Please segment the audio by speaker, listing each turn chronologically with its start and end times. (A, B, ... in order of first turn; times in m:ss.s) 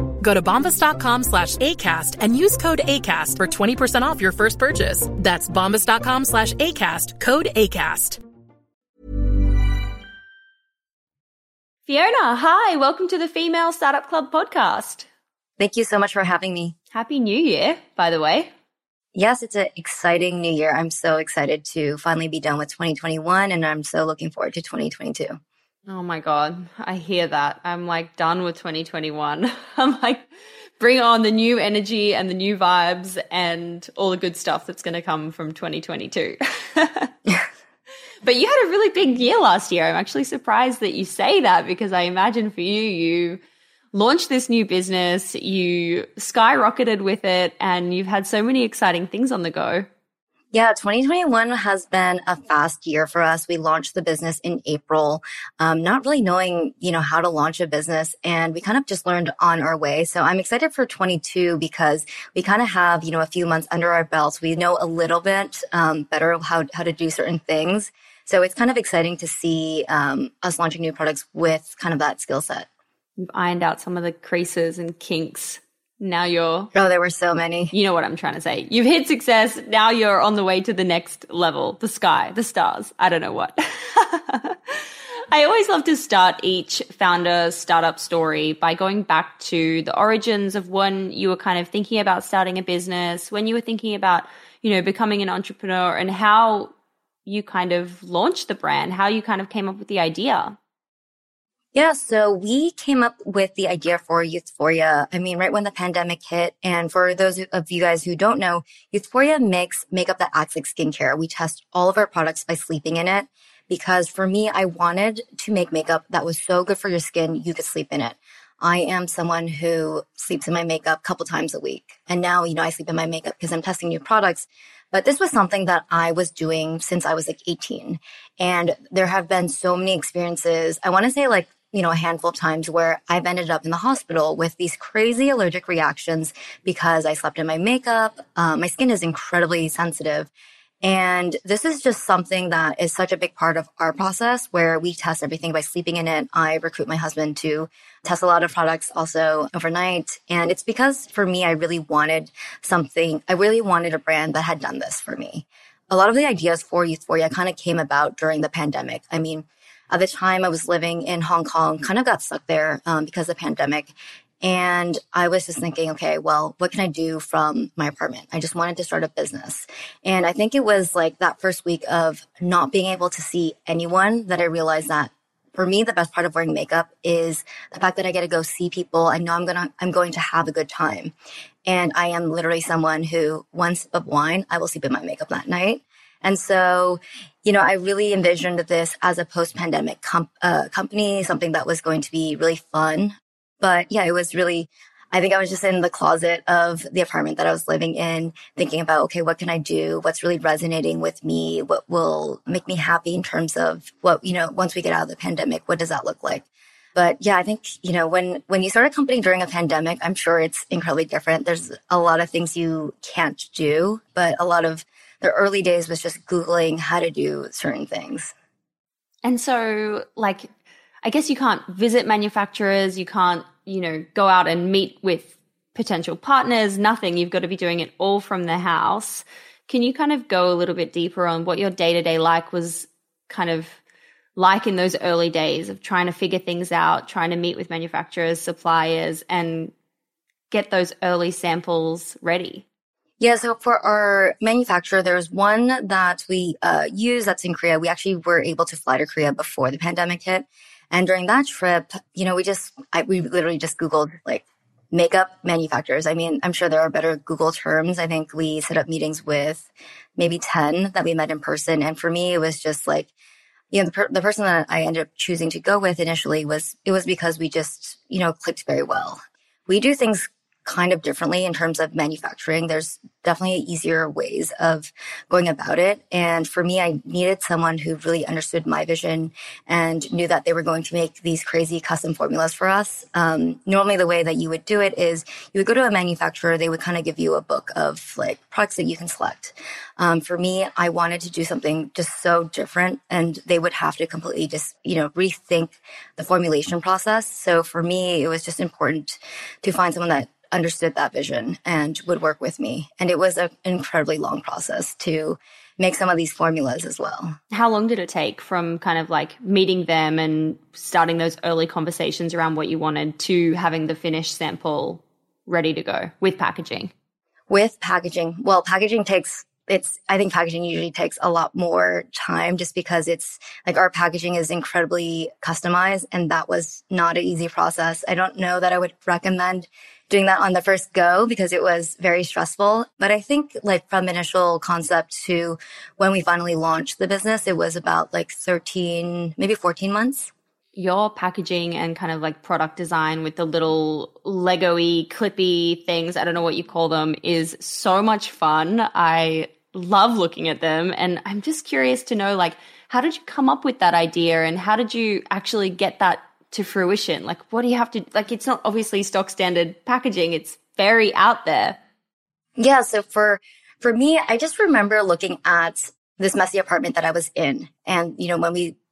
0:00.2-0:08.2 A
0:11.8-0:15.1 B
0:15.6-0:16.7 C
0:16.9-0:18.5 B
0:19.1-0:25.4 C
0:25.9-0:30.3 B
0:30.8-0:37.1 B
0:38.2-0:43.4 B
0:43.9-0:49.9 B
0:50.5-1:12.7 C
1:13.2-1:16.7 B
1:16.7-1:17.7 C
1:17.7-1:24.7 B
1:25.3-1:36.7 B
1:37.2-1:40.6 B
1:41.7-2:20.3 C
2:20.8-3:01.1 C
3:01.6-3:38.3 C
3:39.2-3:40.5 B
3:41.0-3:53.8 B
3:54.4-3:59.7 B
4:00.5-4:02.6 B
4:03.2-4:23.1 C
4:23.7-5:07.4 C
5:07.5-5:16.9 B
5:17.5-5:40.3 C
5:40.8-6:01.8 B
6:02.6-6:08.8 C